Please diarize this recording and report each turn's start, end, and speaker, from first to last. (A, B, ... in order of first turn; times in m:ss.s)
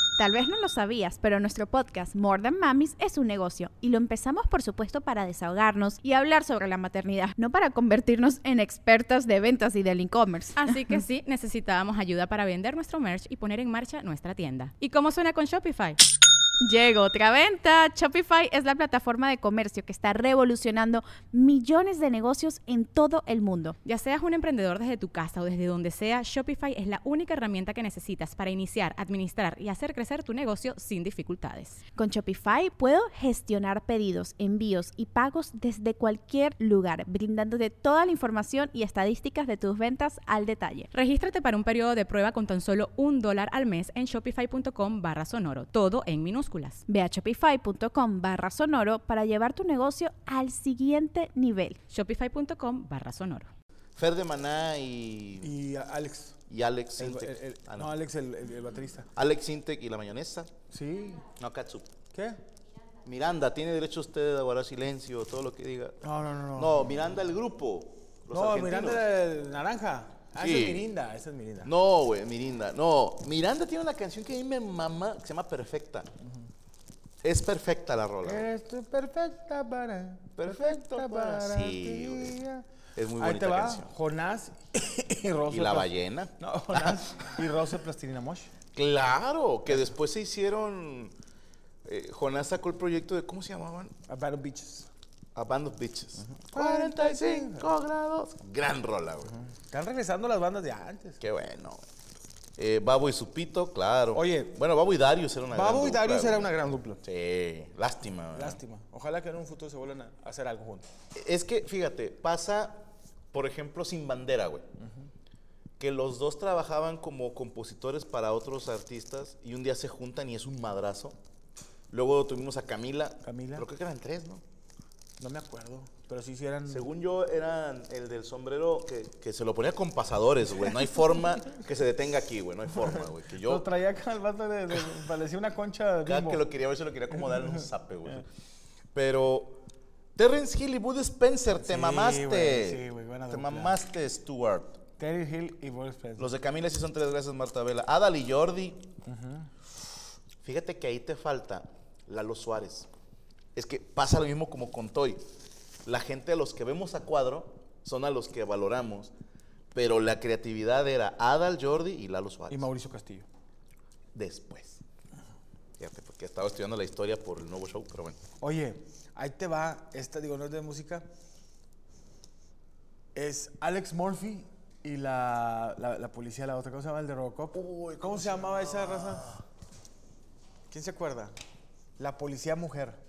0:00.2-0:11.0 A
0:10.6-0:16.0 B
0:16.6-0:23.8 A
0:23.8-0:31.8 B
0:31.9-0:40.9 A
0:40.9-0:46.8 B
0:46.9-0:51.8 A
0:51.9-0:53.5 B
0:54.0-0:55.5 C
0:55.4-0:56.4 D
0:56.5-0:58.0 C
0:57.0-0:59.1 D
0:59.1-1:00.5 C
1:00.7-1:01.3 D
1:01.3-1:01.9 C
1:02.1-1:02.4 D
1:03.0-1:06.0 C
1:06.0-1:07.0 D
1:06.5-1:09.0 C
1:08.3-1:11.7 D
1:10.4-1:10.9 C
1:11.6-1:16.1 C
1:17.2-1:18.4 C
1:18.2-1:28.5 D
1:20.4-1:22.4 C
1:23.0-1:23.9 C
1:25.5-1:27.0 C
1:28.7-1:31.1 C
1:31.8-1:33.9 C
1:34.1-1:34.9 D
1:35.3-1:39.3 C
1:36.3-1:37.7 D
1:39.5-1:41.2 D
1:41.2-1:41.8 C
1:42.6-1:46.5 C
1:44.1-1:44.5 D
1:45.5-1:47.0 D
1:47.0-1:48.6 C
1:48.3-1:50.9 D
1:51.1-1:54.6 C
1:55.8-2:01.2 C
2:01.9-2:04.4 C
2:03.2-2:03.7 D
2:05.2-2:06.9 D
2:06.7-2:13.6 C
2:13.4-2:16.4 D
2:16.0-2:18.2 C
2:18.9-2:19.6 C
2:20.2-2:24.8 C
2:21.6-2:23.8 D
2:25.0-2:26.3 D
2:26.2-2:28.9 C
2:29.0-2:29.5 D
2:30.4-2:32.9 C
2:33.5-2:35.2 C
2:35.8-2:39.1 C
2:39.7-2:42.7 C
2:42.5-2:43.3 D
2:44.1-2:44.8 C
2:45.8-2:48.2 C
2:48.4-2:51.0 D
2:53.1-2:59.3 D
2:57.5-2:59.4 C
3:00.7-3:01.3 D
3:02.0-3:03.0 D